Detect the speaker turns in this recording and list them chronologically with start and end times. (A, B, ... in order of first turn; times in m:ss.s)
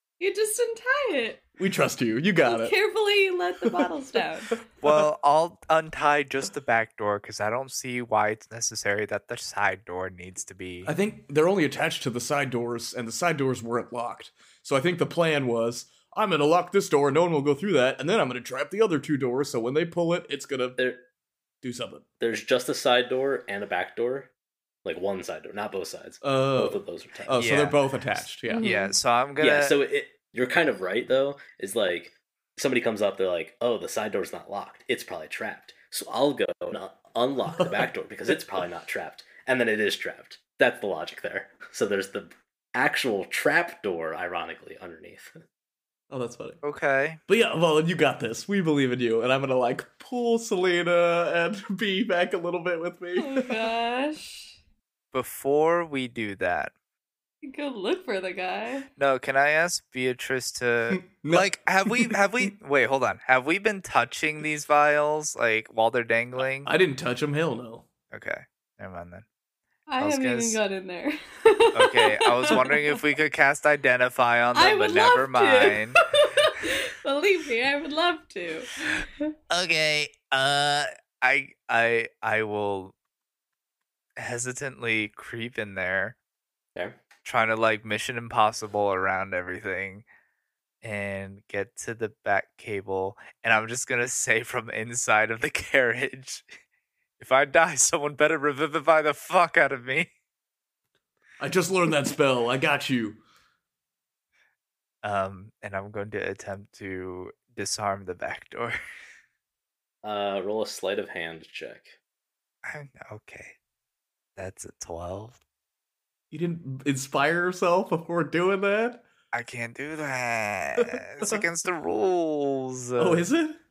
0:00.2-0:01.4 A
0:01.6-0:02.8 B
0:02.4-0:04.5 A
0:03.6-0:03.9 B
0:04.8-0:05.1 B
0:04.8-0:10.9 C
0:10.8-0:20.8 B
0:20.8-0:21.0 D
0:21.6-0:22.0 B
0:22.2-0:24.3 D
0:24.8-0:27.4 D
0:26.2-0:28.7 B
0:27.3-0:27.8 C
0:28.5-0:28.9 A
0:28.5-0:29.8 C
0:29.4-0:45.4 D
0:46.1-0:46.6 B
0:46.6-0:47.2 C
0:47.3-0:53.7 B
0:53.2-0:54.6 A
0:55.1-0:56.7 C
0:57.4-0:58.9 A
0:59.0-1:06.7 C
1:00.9-1:02.2 B
1:06.6-1:07.9 B
1:08.1-1:09.2 C
1:09.9-1:12.9 A
1:10.0-1:10.6 C
1:11.7-1:16.0 C
1:14.5-1:19.3 A
1:19.5-1:22.9 C
1:24.2-1:26.2 C
1:27.2-1:30.0 C
1:30.8-1:36.4 C
1:37.2-1:40.1 C
1:41.4-1:43.2 B
1:45.0-1:48.8 C
1:50.0-1:52.0 D
1:52.6-1:53.6 C
1:54.4-1:55.4 C
1:56.3-1:59.0 B
1:59.3-2:03.3 C
2:00.8-2:01.4 B
2:03.0-2:03.6 B